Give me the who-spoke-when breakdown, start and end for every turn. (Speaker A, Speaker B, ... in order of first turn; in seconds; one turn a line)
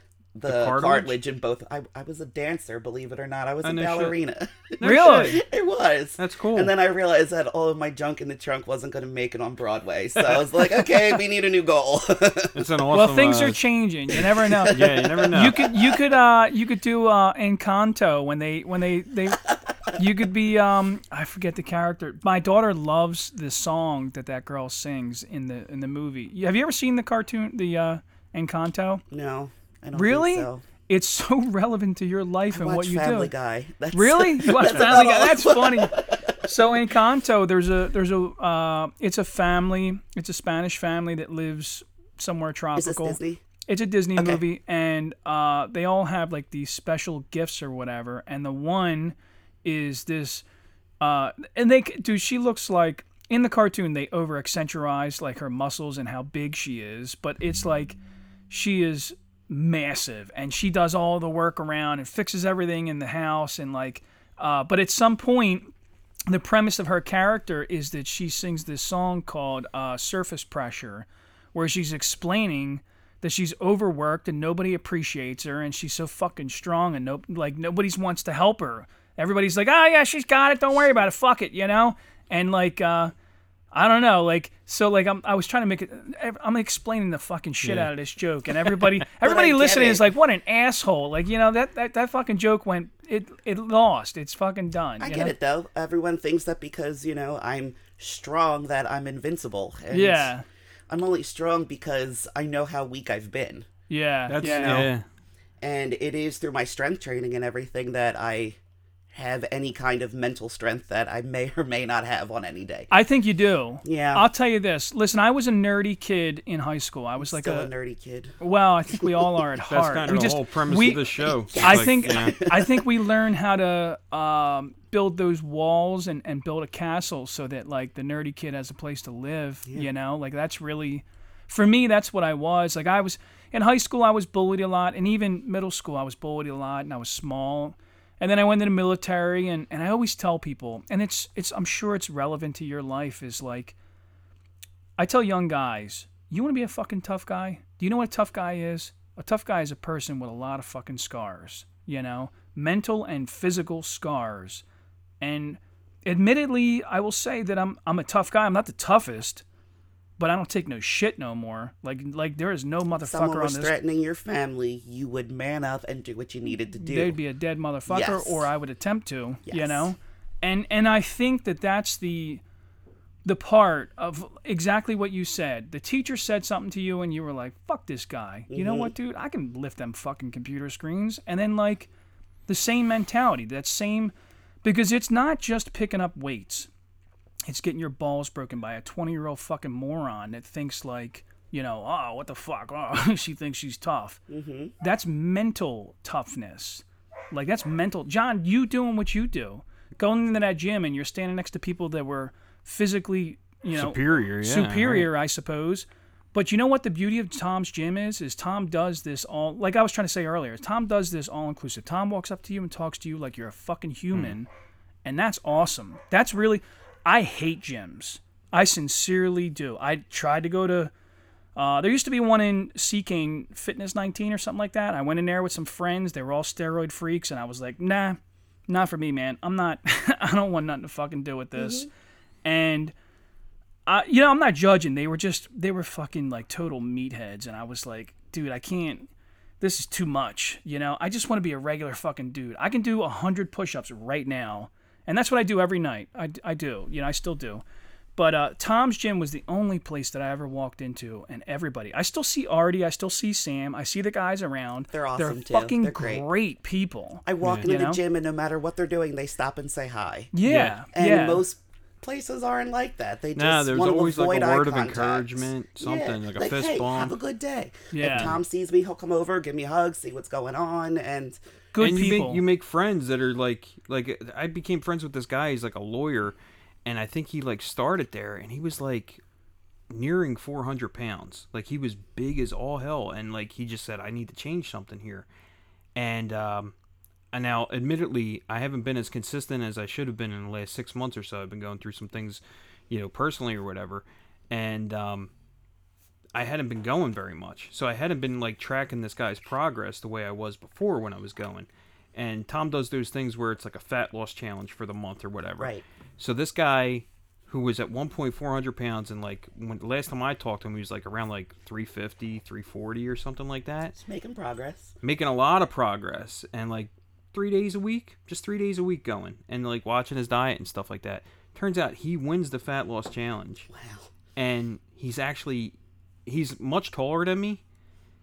Speaker A: 0.3-12.7
Speaker B: 0.5-1.2
Speaker B: 3.6-4.2
Speaker B: 4.8-5.4
Speaker C: 4.8-5.4
Speaker B: 6.2-6.7
Speaker B: 12.5-13.6
Speaker C: 12.9-19.4
Speaker A: 14.5-16.0
Speaker B: 14.7-15.7
Speaker C: 19.9-29.0
Speaker A: 29.1-30.6
Speaker C: 29.9-33.3
Speaker A: 32.5-36.4
Speaker C: 33.9-50.5
Speaker A: 42.8-43.4
Speaker A: 44.2-44.4
Speaker C: 51.0-58.0
Speaker C: 58.5-65.7
Speaker C: 66.3-83.1
Speaker C: 83.7-95.3
Speaker B: 87.6-87.9
Speaker A: 89.2-90.1
Speaker A: 95.0-100.3
Speaker C: 99.9-100.5
Speaker A: 100.9-103.7
Speaker C: 103.9-104.9
Speaker B: 104.3-105.0
Speaker A: 104.4-104.9
Speaker A: 105.6-108.6
Speaker A: 109.1-112.9
Speaker C: 112.9-117.7
Speaker A: 113.8-114.3
Speaker A: 117.2-118.3
Speaker C: 118.4-121.0
Speaker A: 119.0-119.2
Speaker B: 119.7-122.3
Speaker A: 121.5-122.9
Speaker C: 121.5-143.8
Speaker C: 145.0-154.6
Speaker C: 155.2-159.4
Speaker C: 160.2-163.7
Speaker A: 162.9-167.2
Speaker C: 166.8-172.4
Speaker A: 167.9-168.5
Speaker A: 169.5-169.9
Speaker C: 173.2-181.9
Speaker A: 178.5-178.9
Speaker C: 182.5-184.1
Speaker C: 184.6-186.7
Speaker C: 187.5-194.2
Speaker A: 194.3-194.7
Speaker C: 194.8-214.5
Speaker B: 203.7-205.1
Speaker C: 215.0-220.9
Speaker C: 221.5-231.9
Speaker A: 231.6-231.9
Speaker C: 232.4-232.9
Speaker C: 233.8-239.1
Speaker C: 239.6-247.6
Speaker C: 248.2-258.0
Speaker A: 254.9-256.2
Speaker A: 257.2-260.3
Speaker B: 257.4-257.7
Speaker C: 260.3-261.4
Speaker B: 260.4-260.8
Speaker A: 260.9-271.4
Speaker B: 263.3-267.1
Speaker C: 267.9-268.3
Speaker B: 268.1-268.4
Speaker C: 271.7-272.4
Speaker B: 271.8-279.2
Speaker B: 279.9-285.3
Speaker B: 285.9-286.7
Speaker B: 287.3-295.3
Speaker B: 296.3-313.9
Speaker A: 305.6-305.8
Speaker A: 313.9-314.9
Speaker B: 315.0-323.7
Speaker A: 323.7-324.1
Speaker B: 324.4-325.8
Speaker B: 326.2-327.6